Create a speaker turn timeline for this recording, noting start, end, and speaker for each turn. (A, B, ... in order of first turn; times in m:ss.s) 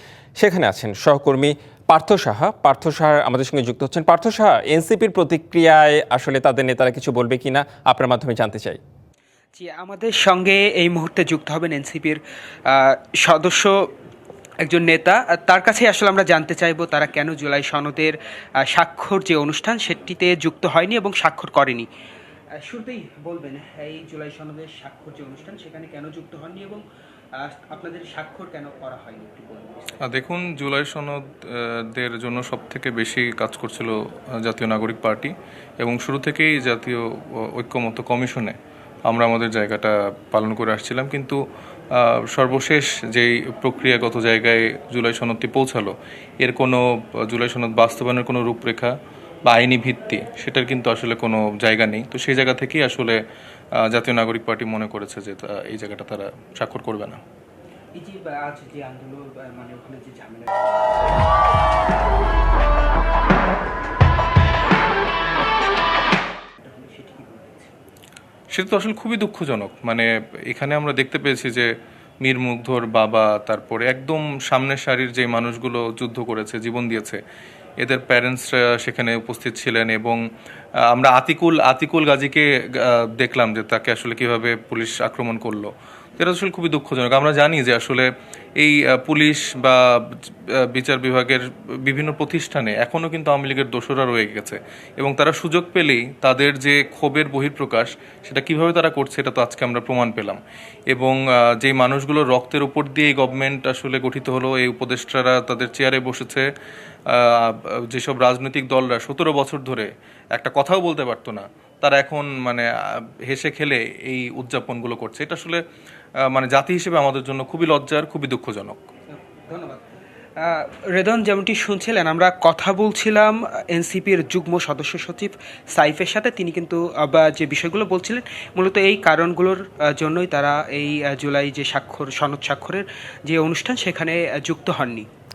0:00.4-0:08.8 A
0:09.5-0:13.7 B
0:14.6-0:21.9 B
0:22.6-0:26.8 B
0:27.4-0:30.0 B
0:30.0-0:38.5 C
0:39.1-0:41.4 C
0:41.9-0:48.9 C
0:49.5-0:53.2 C
0:53.8-0:57.2 C
0:58.0-1:01.3 B
1:06.6-1:07.8 B
1:08.5-1:11.7 C
1:12.2-1:17.2 C
1:17.8-1:20.2 C
1:20.9-1:28.1 C
1:28.6-1:40.4 C
1:40.9-1:46.5 C
1:47.1-1:55.6 C
1:56.3-1:58.8 C
1:59.1-1:59.9 B
2:00.4-2:15.1 B